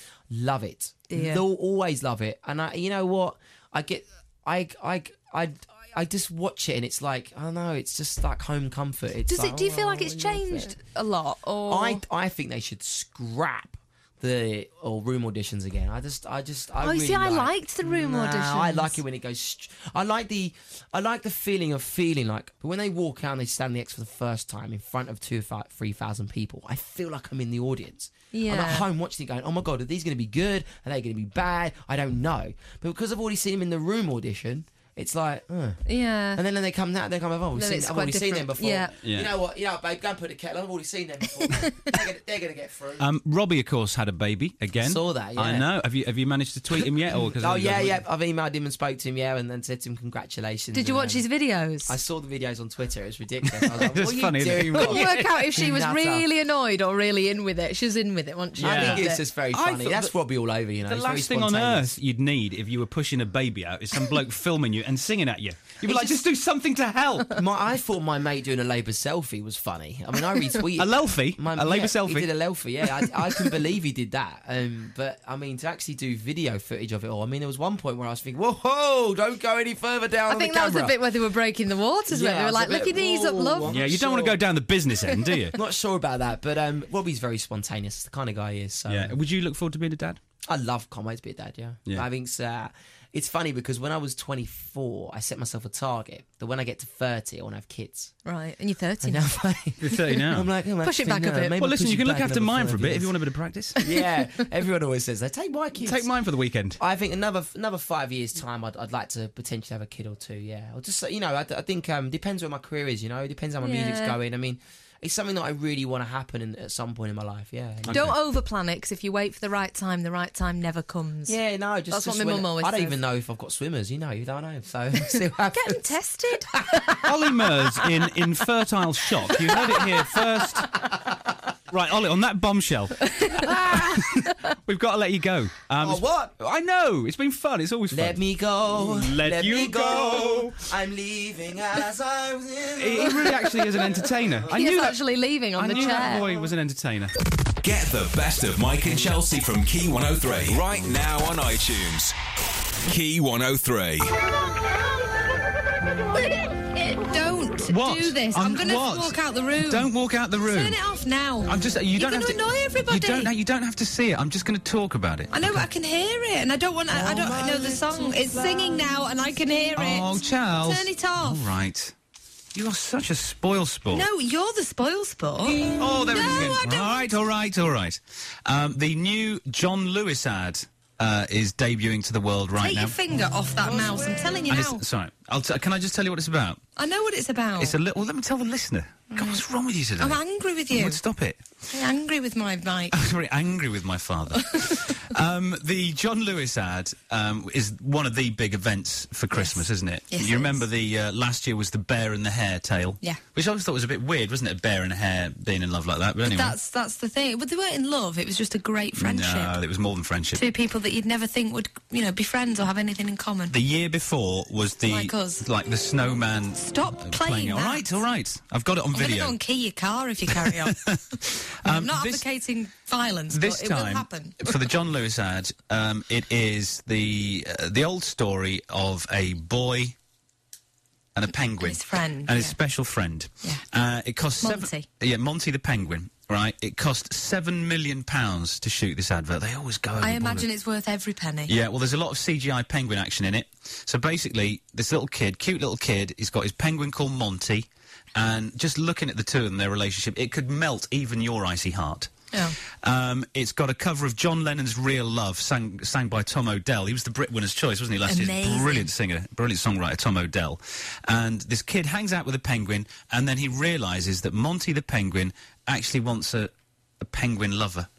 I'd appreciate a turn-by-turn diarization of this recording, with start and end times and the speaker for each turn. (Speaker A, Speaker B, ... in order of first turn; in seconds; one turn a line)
Speaker A: 0.3-10.8
Speaker B: 1.1-1.4
Speaker B: 9.3-12.0
Speaker A: 11.7-43.1
Speaker B: 16.8-19.0
Speaker B: 28.3-28.9
Speaker B: 35.9-36.4
Speaker B: 37.6-38.9
Speaker C: 39.0-39.3
Speaker C: 43.0-48.0
Speaker A: 44.8-45.7
Speaker A: 47.1-51.3
Speaker B: 50.7-52.0
Speaker A: 51.9-56.3
Speaker C: 53.5-55.3
Speaker B: 54.8-59.2
Speaker C: 58.6-60.1
Speaker A: 58.6-62.0
Speaker C: 60.9-67.4
Speaker A: 67.3-81.0
Speaker C: 70.8-72.3
Speaker B: 80.3-83.7
Speaker A: 82.1-84.4
Speaker C: 83.7-85.6
Speaker A: 85.5-89.2
Speaker C: 88.9-90.2
Speaker A: 90.5-98.1
Speaker B: 98.2-99.3
Speaker A: 99.0-103.2
Speaker C: 99.8-100.5
Speaker B: 100.8-101.6
Speaker C: 101.6-103.8
Speaker A: 103.8-106.1
Speaker C: 105.8-106.8
Speaker A: 106.8-118.1
Speaker B: 113.6-114.2
Speaker C: 117.8-118.2
Speaker B: 117.9-121.4
Speaker A: 121.3-127.5
Speaker B: 121.9-123.0
Speaker B: 125.5-127.0
Speaker C: 127.0-130.8
Speaker C: 131.7-138.2
Speaker B: 133.1-134.3
Speaker A: 135.8-136.3
Speaker A: 137.9-143.7
Speaker C: 138.7-140.6
Speaker C: 142.8-145.0
Speaker A: 144.3-144.5
Speaker B: 144.5-146.4
Speaker C: 145.5-147.1
Speaker D: 147.6-152.2
Speaker D: 152.8-154.2
Speaker B: 154.4-155.3
Speaker B: 156.1-159.9
Speaker C: 157.7-160.8
Speaker B: 160.4-163.3
Speaker C: 161.5-165.7
Speaker B: 165.3-171.4
Speaker A: 166.9-168.9
Speaker C: 169.8-171.9
Speaker C: 172.5-174.1
Speaker B: 173.9-177.1
Speaker C: 175.6-182.9
Speaker B: 182.6-184.8
Speaker A: 183.8-184.3
Speaker C: 184.5-186.6
Speaker B: 186.8-187.8
Speaker C: 187.6-191.6
Speaker B: 189.1-189.4
Speaker B: 190.0-191.0
Speaker B: 191.7-193.0
Speaker C: 192.9-206.6
Speaker B: 194.4-194.9
Speaker B: 199.3-200.6
Speaker B: 206.2-209.6
Speaker C: 209.0-210.5
Speaker B: 210.3-213.6
Speaker C: 213.5-219.4
Speaker B: 214.9-215.4
Speaker B: 216.6-217.9
Speaker B: 218.9-224.6
Speaker C: 220.3-222.2
Speaker C: 223.3-230.0
Speaker C: 231.2-240.5
Speaker B: 231.6-232.6
Speaker B: 234.4-234.9
Speaker B: 240.0-241.6
Speaker C: 241.5-267.9
Speaker B: 258.1-258.9